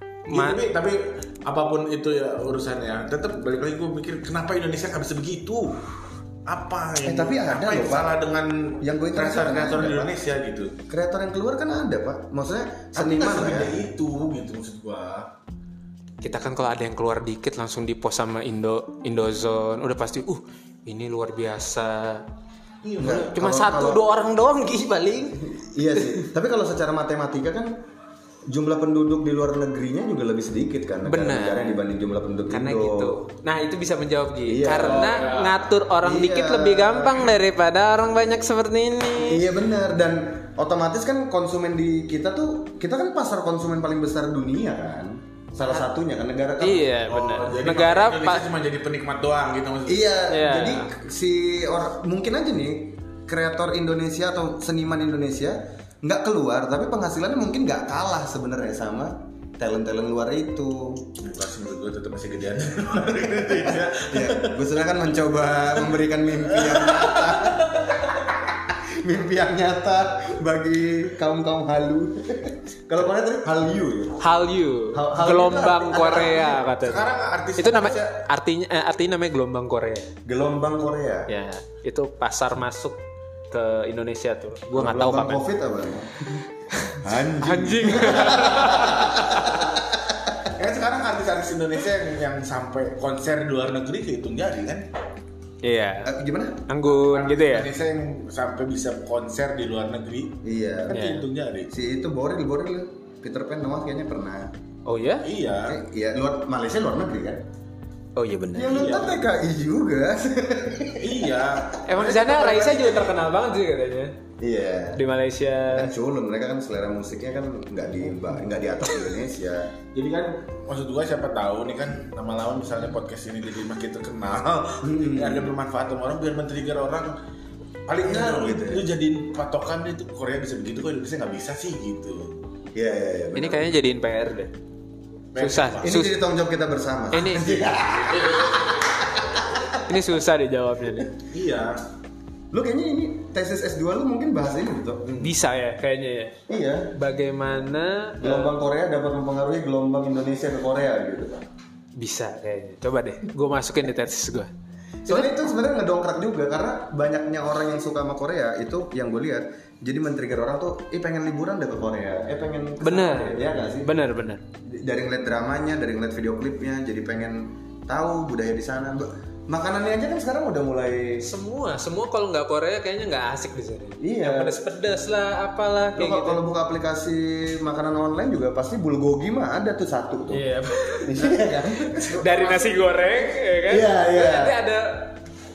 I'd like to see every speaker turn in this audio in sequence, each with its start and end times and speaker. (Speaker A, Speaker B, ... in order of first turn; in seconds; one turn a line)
Speaker A: 0.3-0.6
Speaker B: 0.3-5.8
Speaker B: 6.5-10.8
Speaker C: 7.0-8.2
Speaker C: 8.8-10.2
Speaker C: 10.9-13.8
Speaker B: 12.9-15.3
Speaker A: 16.2-22.2
Speaker B: 22.8-23.3
Speaker C: 23.0-24.0
Speaker A: 23.0-26.2
Speaker C: 25.4-27.8
Speaker C: 28.5-33.1
Speaker A: 31.1-31.8
Speaker A: 32.5-39.4
Speaker C: 34.5-35.3
Speaker B: 34.7-35.7
Speaker C: 36.0-37.4
Speaker C: 39.2-47.0
Speaker A: 46.6-48.5
Speaker B: 47.1-50.2
Speaker C: 49.9-61.1
Speaker A: 50.3-50.9
Speaker B: 61.2-64.9
Speaker C: 63.5-74.2
Speaker B: 65.5-66.0
Speaker B: 66.5-68.0
Speaker A: 74.2-80.1
Speaker C: 74.9-76.7
Speaker B: 76.6-78.2
Speaker C: 80.3-81.3
Speaker A: 81.3-85.5
Speaker C: 84.7-86.5
Speaker A: 86.7-89.6
Speaker C: 87.0-90.4
Speaker B: 88.4-89.5
Speaker B: 90.5-94.9
Speaker A: 95.6-96.2
Speaker C: 96.0-96.6
Speaker A: 96.7-97.7
Speaker B: 96.9-101.7
Speaker C: 100.4-101.0
Speaker A: 100.9-101.3
Speaker C: 101.7-104.5
Speaker A: 104.9-105.3
Speaker B: 105.2-105.8
Speaker C: 105.7-107.5
Speaker A: 108.2-109.0
Speaker C: 108.5-111.3
Speaker B: 108.7-109.2
Speaker B: 111.0-113.2
Speaker A: 111.8-114.2
Speaker C: 114.4-115.0
Speaker A: 115.0-115.9
Speaker C: 115.7-119.7
Speaker B: 119.9-127.1
Speaker C: 124.8-125.5
Speaker B: 127.9-132.4
Speaker C: 128.0-128.9
Speaker C: 132.7-133.7
Speaker A: 133.4-134.5
Speaker B: 135.3-135.9
Speaker A: 135.4-136.2
Speaker C: 135.8-139.8
Speaker A: 137.1-137.8
Speaker B: 137.7-139.1
Speaker A: 139.8-141.1
Speaker B: 141.3-141.8
Speaker C: 142.5-145.1
Speaker B: 145.1-145.3
Speaker A: 145.2-148.5
Speaker C: 146.5-146.9
Speaker C: 148.2-151.4
Speaker A: 152.0-154.5
Speaker C: 155.1-163.9
Speaker A: 155.1-155.3
Speaker A: 162.8-164.4
Speaker C: 164.7-171.2
Speaker A: 171.2-176.4
Speaker C: 174.0-174.6
Speaker C: 176.0-180.4
Speaker A: 180.3-185.2
Speaker C: 181.0-182.3
Speaker B: 182.2-182.9
Speaker C: 183.7-184.6